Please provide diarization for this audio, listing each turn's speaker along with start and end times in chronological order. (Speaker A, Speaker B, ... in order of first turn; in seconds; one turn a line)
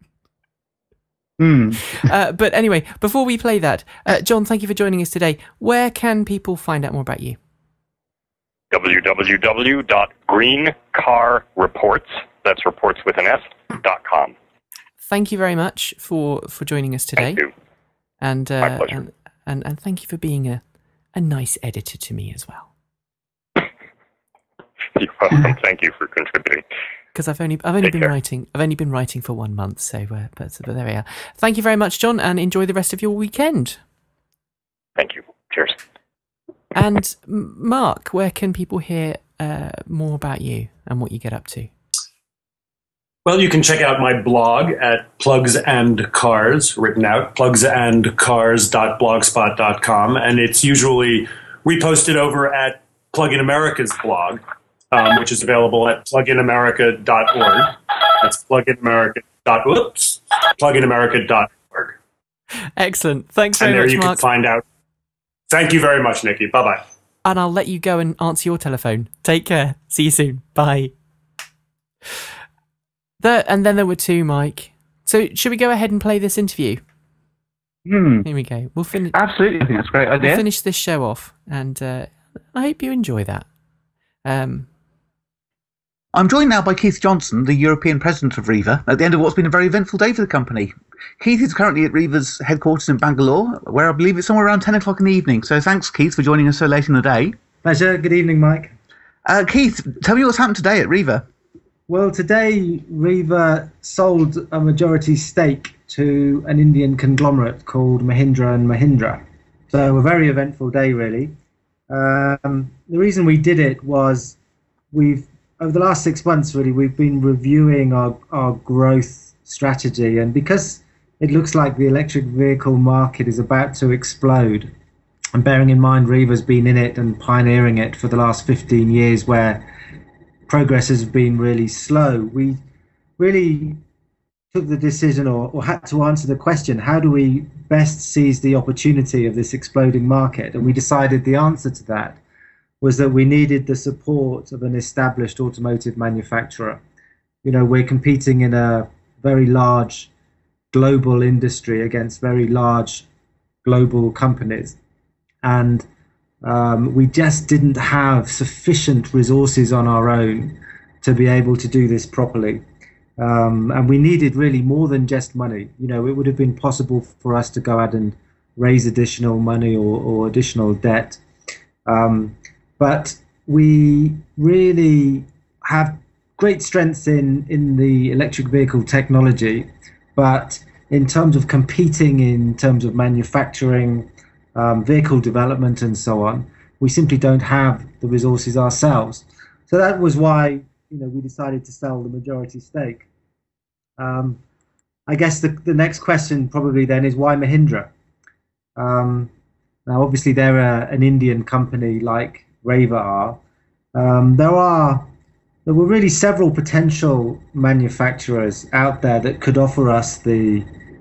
Speaker A: 1.4-2.0
Speaker B: 1.9-7.4
Speaker C: 8.7-14.3
Speaker B: 15.0-17.4
Speaker C: 17.2-17.5
Speaker B: 18.2-20.6
Speaker C: 18.6-19.0
Speaker B: 21.1-22.7
Speaker C: 24.9-26.6
Speaker B: 27.1-33.8
Speaker C: 35.0-35.8
Speaker B: 36.8-41.7
Speaker D: 43.2-62.0
Speaker B: 62.8-64.2
Speaker D: 63.6-64.6
Speaker D: 65.5-66.8
Speaker B: 67.2-70.9
Speaker B: 73.2-76.8
Speaker A: 77.9-78.3
Speaker B: 78.2-79.2
Speaker A: 79.1-80.4
Speaker B: 80.2-83.5
Speaker B: 84.2-84.7
Speaker A: 86.1-97.3
Speaker E: 97.6-98.7
Speaker A: 99.3-101.3
Speaker E: 101.9-111.3
Speaker E: 111.9-114.4
Speaker E: 114.9-124.7
Speaker E: 125.3-129.7
Speaker E: 130.5-132.6
Speaker E: 133.2-133.8
Speaker E: 134.5-142.2
Speaker E: 142.8-146.8
Speaker E: 147.4-150.1
Speaker E: 150.7-153.1
Speaker E: 153.6-154.8
Speaker E: 155.4-155.8
Speaker E: 156.4-162.6
Speaker E: 163.2-171.2
Speaker E: 171.9-193.1
Speaker E: 194.0-194.4
Speaker E: 195.1-197.9
Speaker E: 198.8-199.3
Speaker E: 199.9-203.4
Speaker E: 203.9-205.1
Speaker E: 205.7-210.7